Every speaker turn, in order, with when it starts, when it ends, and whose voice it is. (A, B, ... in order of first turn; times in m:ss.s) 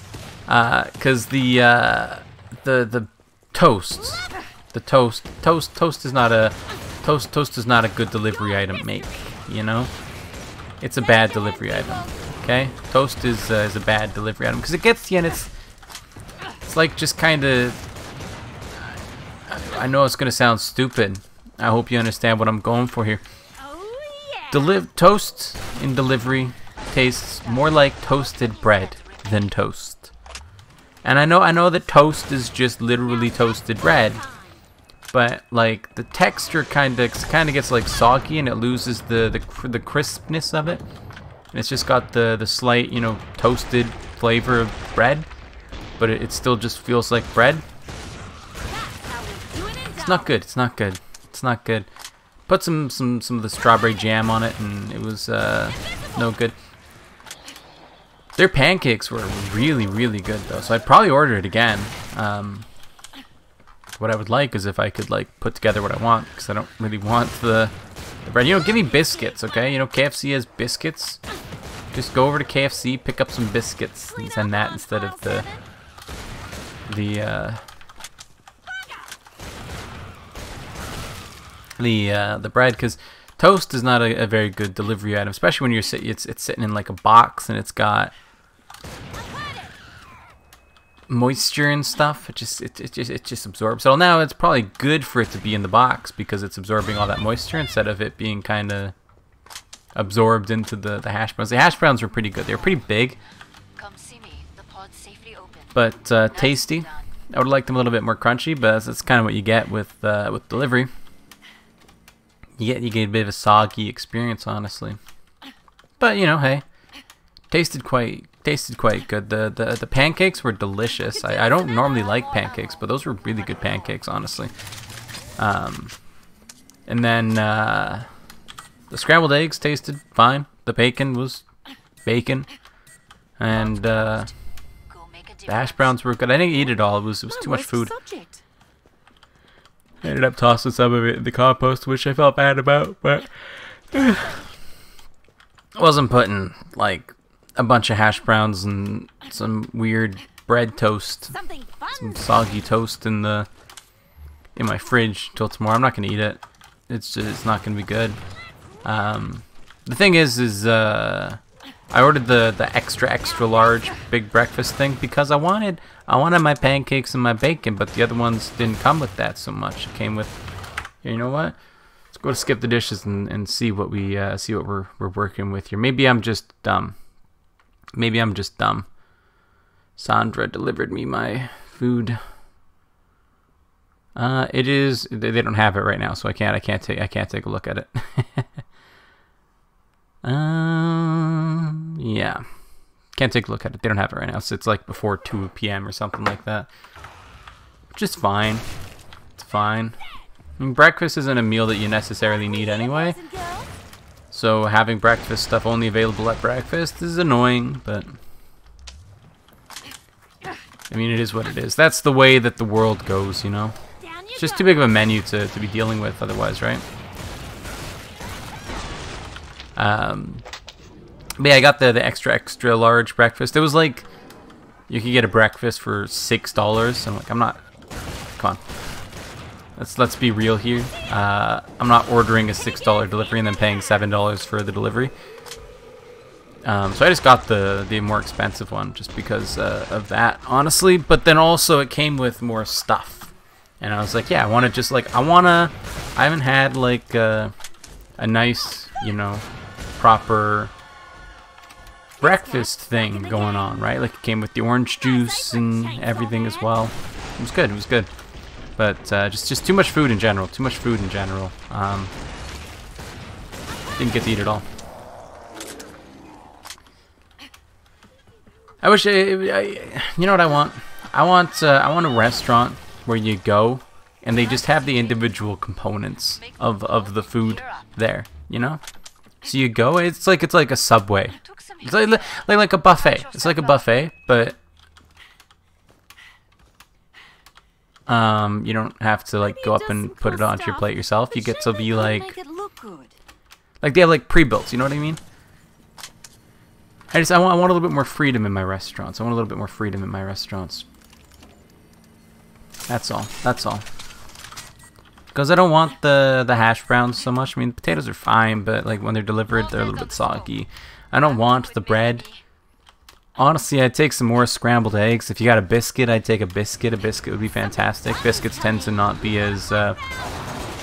0:00.5-0:09.9 A
0:08.5-0:09.2 B
0:10.8-0:15.5 A
0:11.0-0:12.3 B
0:16.6-0:17.8 A
0:19.5-0:23.2 A
0:23.6-0:24.7 B
0:24.5-0:30.1 A
0:26.7-0:29.6 C
0:31.0-0:34.2 A
0:33.0-0:34.6 B
0:35.1-0:40.8 A
0:41.5-0:45.3 A
0:46.0-0:47.6 A
0:48.6-0:50.3 B
0:50.0-0:51.9 A
0:52.5-0:56.6 A
0:58.4-1:02.7 A
1:04.0-1:07.7 A
1:08.2-1:11.2 A
1:11.9-1:15.5 A
1:14.1-1:15.6 B
1:16.9-1:17.6 A
1:21.8-1:28.1 A
1:29.3-1:29.6 B
1:31.1-1:38.9 A
1:39.9-1:43.2 A
1:42.2-1:43.2 C
1:43.8-1:47.1 C
1:45.7-1:50.9 A
1:52.6-1:55.0 A
1:56.0-1:56.6 A
1:57.5-2:04.5 A
2:01.0-2:04.0 C
2:05.4-2:06.0 A
2:06.8-2:08.1 A
2:08.9-2:11.4 A
2:12.0-2:12.5 A
2:13.4-2:14.3 A
2:13.6-2:14.3 C
2:14.9-2:16.8 C
2:15.5-2:17.9 A
2:17.3-2:18.4 B
2:20.0-2:24.4 A
2:25.7-2:31.4 A
2:31.3-2:32.3 B
2:31.9-2:33.5 A
2:34.6-2:38.2 A
2:38.8-2:41.4 A
2:41.9-2:50.4 A
2:51.0-2:51.6 A
2:52.1-2:57.0 A
2:57.9-2:58.9 A
3:00.0-3:02.2 A
3:04.1-3:08.6 A
3:10.2-3:12.4 A
3:13.1-3:16.7 A
3:17.9-3:18.6 A
3:19.4-3:20.0 A
3:20.6-3:23.2 A
3:22.2-3:23.8 B
3:24.3-3:28.2 A
3:30.9-3:33.8 A
3:34.0-3:34.8 B
3:34.4-3:36.8 A
3:39.8-3:40.4 A
3:41.4-3:44.1 A
3:44.9-3:47.6 A
3:48.4-3:48.8 A
3:49.8-3:55.1 A
3:56.6-4:07.5 A
4:08.2-4:09.4 A
4:10.0-4:10.7 A
4:12.2-4:14.0 B
4:12.2-4:18.1 A
4:15.0-4:16.9 B
4:18.8-4:22.1 A
4:24.0-4:24.6 A
4:28.8-4:38.8 A
4:34.6-4:35.3 C
4:36.3-4:37.9 C
4:39.4-4:44.6 A
4:41.4-4:43.9 C
4:48.1-4:52.3 A
4:49.4-4:53.2 B
4:53.8-4:55.2 A
4:57.1-5:00.8 A
5:02.9-5:03.8 A
5:05.3-5:12.2 A
5:09.5-5:10.6 C
5:11.2-5:12.4 C
5:13.4-5:20.0 A
5:17.5-5:20.2 B